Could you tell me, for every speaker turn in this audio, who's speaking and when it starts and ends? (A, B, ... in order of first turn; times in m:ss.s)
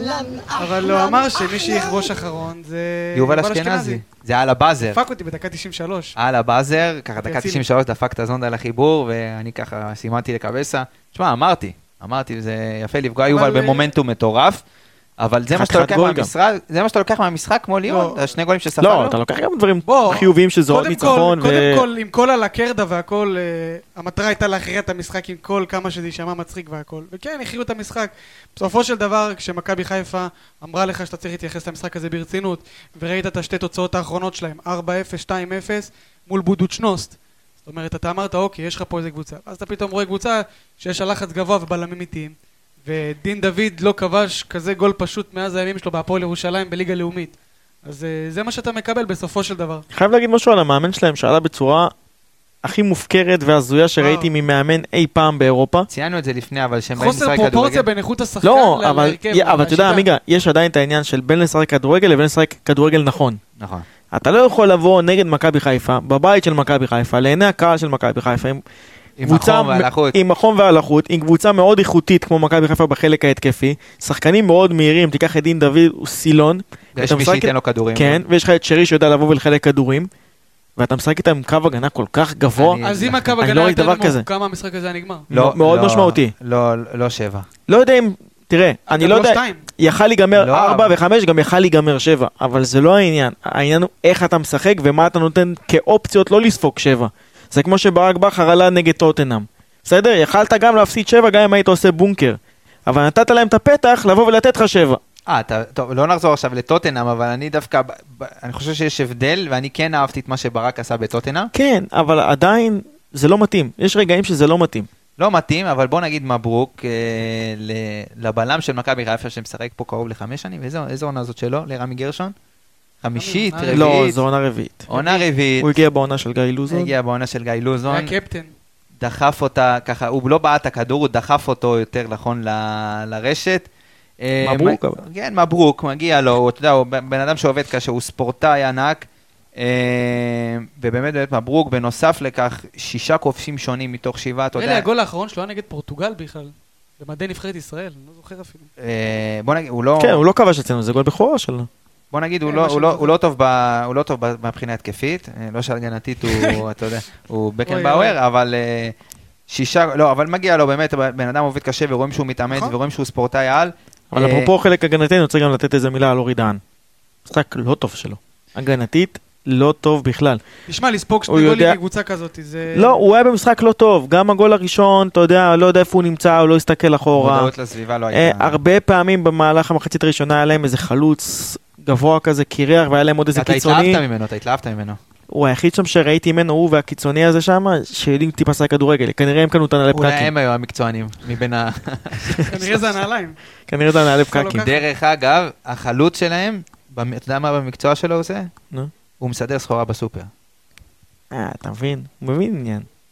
0:00.5-0:04.0 A
0:03.1-0:05.0 B
0:04.9-0:06.2 A
0:06.2-0:14.6 B
0:07.2-0:07.6 A
0:13.3-0:13.8 A
0:15.2-0:19.2 B
0:15.5-0:16.3 C
0:17.9-0:18.2 A
0:18.8-0:21.8 C
0:19.8-0:49.8 A
0:49.9-0:51.9 C
0:52.6-0:55.9 C
0:54.0-0:54.3 A
0:55.9-0:57.8 B
0:57.0-1:00.1 A
0:58.4-1:03.4 C
1:03.6-1:03.8 B
1:04.1-1:08.6 C
1:09.2-1:10.2 B
1:09.2-1:20.1 C
1:16.9-1:18.2 B
1:20.8-1:22.8 C
1:22.6-1:23.3 B
1:22.8-1:25.3 A
1:23.4-1:24.2 C
1:25.3-1:26.3 C
1:25.3-1:27.5 B
1:27.7-1:45.0 C
1:28.9-1:29.6 A
1:30.3-1:31.0 B
1:45.3-1:51.5 B
1:51.5-1:54.9 C
1:55.2-2:02.3 B
2:03.0-2:04.2 B
2:03.2-2:04.0 A
2:03.7-2:04.9 C
2:04.9-2:05.8 B
2:04.9-2:05.2 A
2:05.6-2:06.9 C
2:06.7-2:08.1 B
2:07.9-2:08.5 A
2:09.0-2:13.7 B
2:14.2-2:19.0 B
2:14.4-2:15.0 C
2:19.6-2:24.8 B
2:24.5-2:28.7 A
2:28.8-2:30.2 B
2:30.0-2:31.7 C
2:32.1-2:38.9 B
2:32.5-2:33.1 A
2:36.2-2:36.6 A
2:37.7-2:38.2 A
2:39.5-2:44.5 B
2:44.1-2:46.6 C
2:47.3-2:50.4 C
2:50.7-2:53.0 A
2:51.3-2:51.8 C
2:52.7-2:57.5 C
2:57.1-2:58.6 B
2:58.1-3:04.0 C
3:03.3-3:05.0 B
3:05.3-3:10.3 C
3:09.9-3:12.7 B
3:12.4-3:13.4 A
3:13.7-3:14.7 C
3:14.3-3:14.8 A
3:14.6-3:18.5 B
3:19.2-3:20.3 B
3:21.3-3:22.9 C